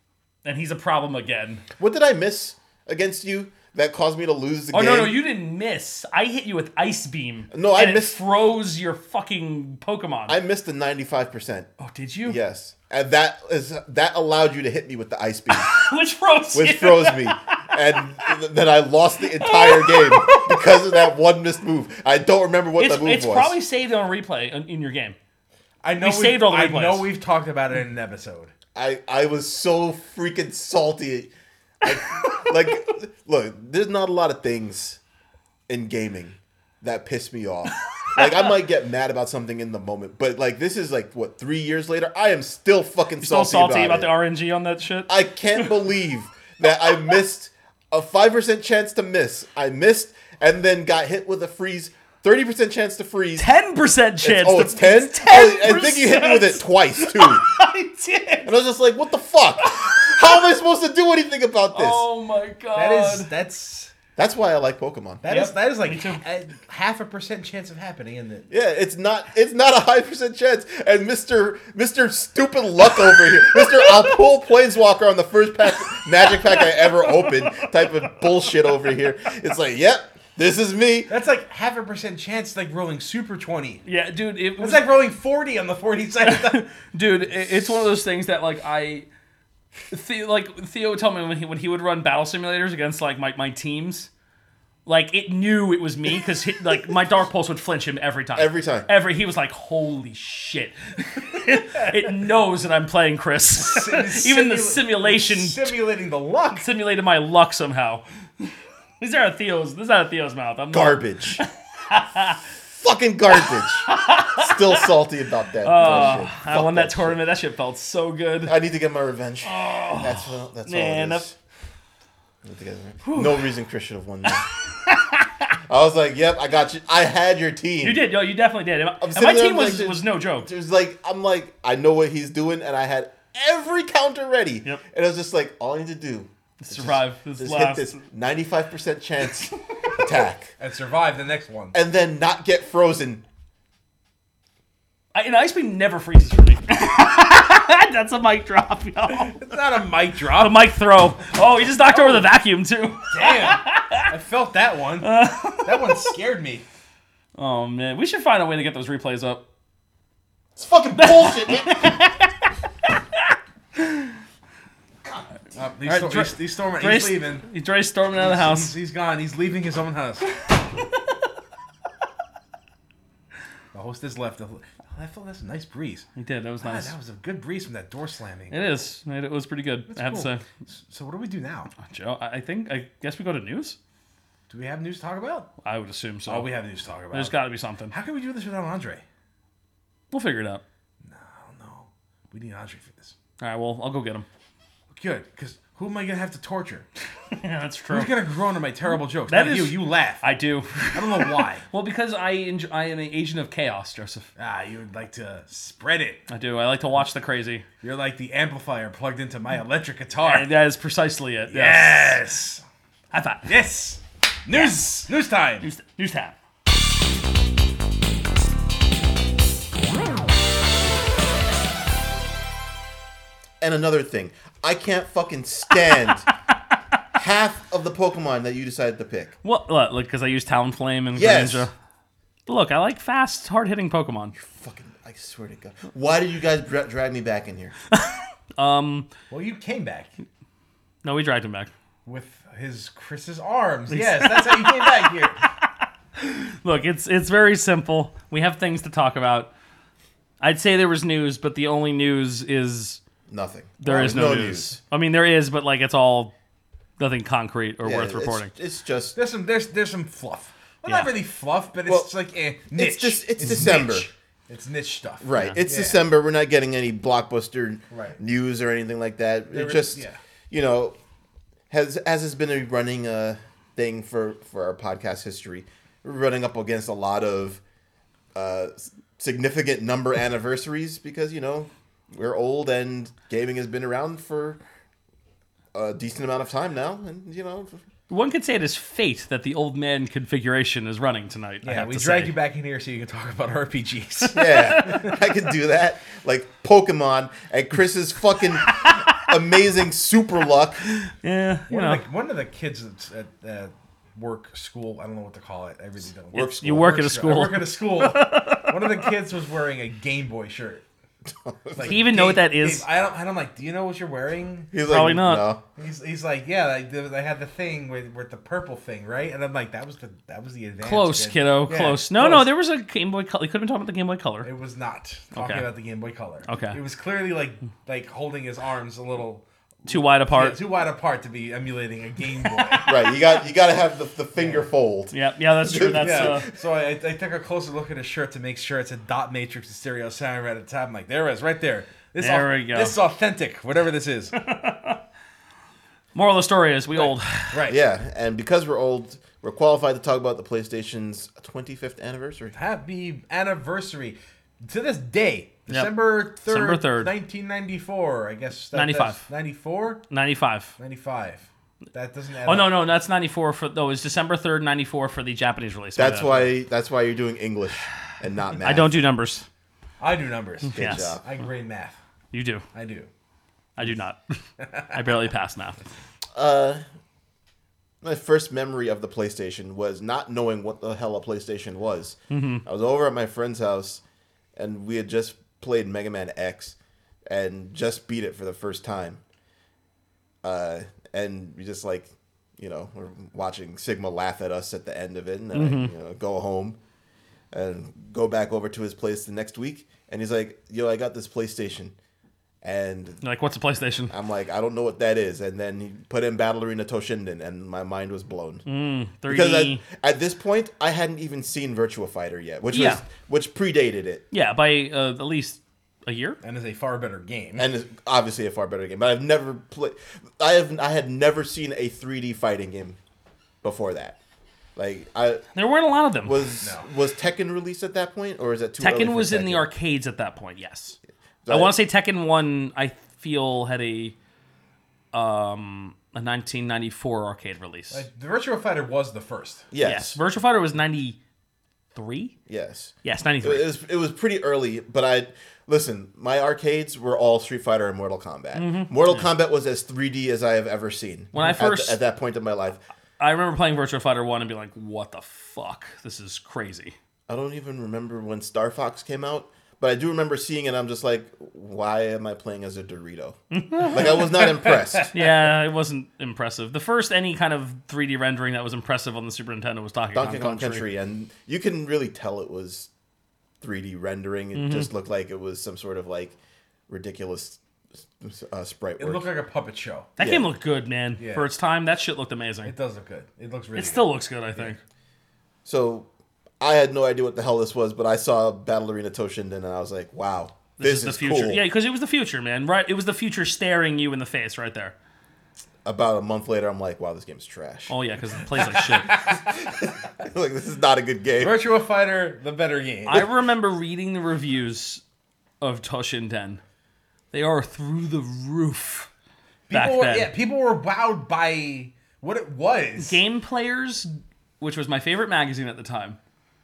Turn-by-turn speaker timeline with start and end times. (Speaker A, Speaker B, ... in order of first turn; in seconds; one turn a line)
Speaker A: 0.5-1.6
Speaker B: 1.8-5.2
Speaker A: 4.7-10.4
Speaker B: 7.5-8.2
Speaker B: 10.3-11.7
Speaker A: 11.8-12.4
Speaker B: 12.2-15.8
Speaker A: 15.5-17.8
Speaker B: 16.5-23.6
Speaker A: 19.4-21.1
Speaker A: 22.8-25.2
Speaker C: 25.8-28.5
Speaker A: 26.0-27.1
Speaker B: 28.8-31.3
Speaker B: 31.8-35.0
Speaker B: 35.7-44.1
Speaker A: 38.0-38.4
Speaker A: 43.2-45.8
Speaker B: 45.1-53.5
Speaker A: 53.4-58.5
Speaker B: 54.2-57.5
Speaker B: 58.5-62.1
Speaker A: 59.6-60.3
Speaker A: 61.7-63.3
Speaker C: 62.8-63.9
Speaker B: 64.2-65.2
Speaker C: 65.2-68.5
Speaker A: 65.3-66.2
Speaker B: 68.5-81.1
Speaker A: 73.5-74.0
Speaker A: 76.0-78.7
Speaker C: 81.1-83.8
Speaker A: 83.9-84.9
Speaker C: 84.6-86.7
Speaker A: 86.2-89.1
Speaker A: 89.9-94.1
Speaker A: 94.9-105.8
Speaker B: 98.4-98.9
Speaker C: 103.5-106.7
Speaker A: 106.5-112.4
Speaker B: 110.7-111.4
Speaker B: 112.6-117.2
Speaker A: 113.5-114.9
Speaker A: 115.6-118.6
Speaker B: 118.4-121.4
Speaker A: 119.4-121.2
Speaker B: 122.4-124.5
Speaker A: 123.0-123.5
Speaker A: 124.2-125.5
Speaker B: 125.7-128.0
Speaker A: 127.8-130.5
Speaker B: 129.0-140.5
Speaker A: 136.6-138.0
Speaker C: 140.6-141.8
Speaker B: 141.7-143.2
Speaker A: 145.1-149.4
Speaker C: 149.1-150.7
Speaker A: 150.4-154.1
Speaker C: 151.8-152.3
Speaker C: 153.1-156.7
Speaker A: 155.0-156.1
Speaker A: 157.3-159.4
Speaker B: 160.6-162.0
Speaker A: 161.0-162.1
Speaker C: 165.6-167.4
Speaker A: 165.8-168.7
Speaker C: 168.1-170.3
Speaker C: 173.7-176.1
Speaker A: 176.2-176.9
Speaker C: 176.6-178.6
Speaker A: 178.5-180.4
Speaker C: 179.9-181.7
Speaker A: 181.8-183.8
Speaker C: 184.5-185.5
Speaker A: 185.6-186.5
Speaker C: 186.3-187.4
Speaker A: 187.1-187.9
Speaker C: 187.9-189.0
Speaker A: 190.1-190.6
Speaker C: 191.0-193.1
Speaker A: 193.4-194.3
Speaker C: 194.9-196.9
Speaker A: 197.3-198.2
Speaker C: 197.9-200.2
Speaker A: 199.3-204.3
Speaker C: 200.9-201.6
Speaker C: 204.4-206.2
Speaker A: 206.3-207.7
Speaker C: 207.8-210.5
Speaker A: 210.2-212.2
Speaker C: 211.5-212.6
Speaker A: 213.1-213.6
Speaker C: 213.5-215.7
Speaker A: 214.5-214.9
Speaker A: 215.6-216.3
Speaker B: 223.6-226.3
Speaker B: 227.1-229.3
Speaker A: 229.4-231.7
Speaker B: 231.1-231.7
Speaker A: 232.5-234.3
Speaker B: 234.3-237.8
Speaker A: 237.9-239.1
Speaker C: 239.3-240.1
Speaker A: 241.0-241.7
Speaker C: 242.1-245.4
Speaker A: 243.9-245.5
Speaker A: 246.2-249.5
Speaker A: 250.4-253.0
Speaker B: 253.3-254.8
Speaker A: 253.8-256.3
Speaker A: 257.0-258.5
Speaker B: 257.8-259.2
Speaker C: 259.1-266.0
Speaker A: 260.9-261.1
Speaker B: 261.9-262.1
Speaker B: 262.7-264.1
Speaker B: 265.2-271.0
Speaker C: 267.9-268.2
Speaker C: 269.5-270.2
Speaker B: 271.7-277.6
Speaker B: 278.3-284.6
Speaker B: 285.7-287.8
Speaker A: 288.1-292.3
Speaker C: 291.6-295.1
Speaker A: 294.3-295.1
Speaker B: 294.3-300.8
Speaker A: 298.6-299.3
Speaker A: 300.9-302.0
Speaker C: 301.7-310.9
Speaker B: 306.3-307.2
Speaker A: 306.3-309.1
Speaker B: 311.3-312.0
Speaker C: 311.8-314.7
Speaker A: 311.8-312.9
Speaker B: 314.7-315.6
Speaker A: 314.8-315.5
Speaker C: 315.8-322.5
Speaker A: 320.8-324.5
Speaker C: 324.4-333.0
Speaker A: 325.4-325.7
Speaker A: 326.5-326.8
Speaker A: 329.9-330.6
Speaker A: 332.6-332.9
Speaker B: 332.9-336.5
Speaker C: 334.4-334.7
Speaker A: 335.1-336.5
Speaker C: 336.0-344.4
Speaker A: 342.2-342.9
Speaker A: 344.4-345.0
Speaker A: 346.1-347.7
Speaker C: 346.9-347.8
Speaker B: 347.7-352.6
Speaker C: 352.5-360.0
Speaker A: 355.7-357.1
Speaker A: 358.7-359.2
Speaker A: 360.1-360.7
Speaker C: 360.8-362.8
Speaker A: 362.4-366.5
Speaker B: 366.0-368.9
Speaker A: 368.6-369.5
Speaker C: 370.0-372.0
Speaker A: 370.7-371.2
Speaker B: 370.8-371.2
Speaker A: 372.3-372.6
Speaker C: 372.7-373.1
Speaker A: 373.8-374.4
Speaker C: 374.6-375.2
Speaker A: 374.9-375.8
Speaker B: 376.4-376.8
Speaker B: 378.0-384.0
Speaker A: 382.3-382.6
Speaker B: 384.6-386.8
Speaker B: 387.3-389.2
Speaker B: 390.4-396.8
Speaker A: 395.5-395.9
Speaker B: 397.5-401.9
Speaker B: 402.6-403.2
Speaker A: 403.2-404.1
Speaker B: 404.1-408.6
Speaker A: 408.7-409.8
Speaker B: 409.3-414.2
Speaker A: 412.7-413.0
Speaker A: 414.3-416.4
Speaker C: 416.4-417.7
Speaker B: 417.6-423.0
Speaker B: 423.6-424.2
Speaker B: 424.8-425.4
Speaker A: 425.6-426.5
Speaker B: 426.2-429.7
Speaker C: 426.6-426.9
Speaker A: 428.8-431.0
Speaker B: 431.5-431.8
Speaker A: 431.5-434.2
Speaker A: 435.1-438.0
Speaker C: 437.9-439.7
Speaker B: 439.7-440.2
Speaker A: 439.8-441.2
Speaker A: 441.9-442.4
Speaker B: 442.5-452.8
Speaker A: 443.0-443.7
Speaker A: 448.6-449.3
Speaker A: 451.3-452.0
Speaker A: 453.2-456.9
Speaker B: 457.3-465.1
Speaker A: 463.5-464.3
Speaker C: 464.1-465.1
Speaker A: 465.1-470.8
Speaker B: 470.1-472.9
Speaker B: 473.6-476.4
Speaker A: 474.5-474.9
Speaker B: 476.9-477.6
Speaker B: 478.2-479.3
Speaker C: 479.0-480.1
Speaker A: 480.2-482.7
Speaker B: 480.2-480.5
Speaker C: 481.2-481.5
Speaker C: 482.6-484.8
Speaker A: 483.8-484.8
Speaker B: 485.6-486.1
Speaker B: 486.6-491.6
Speaker A: 490.8-494.9
Speaker B: 495.9-497.9
Speaker A: 497.9-499.3
Speaker B: 498.6-501.6
Speaker C: 501.4-503.3
Speaker A: 503.1-505.0
Speaker A: 505.6-506.6
Speaker A: 507.3-509.1
Speaker C: 509.7-513.2
Speaker A: 509.7-510.3
Speaker A: 513.0-516.2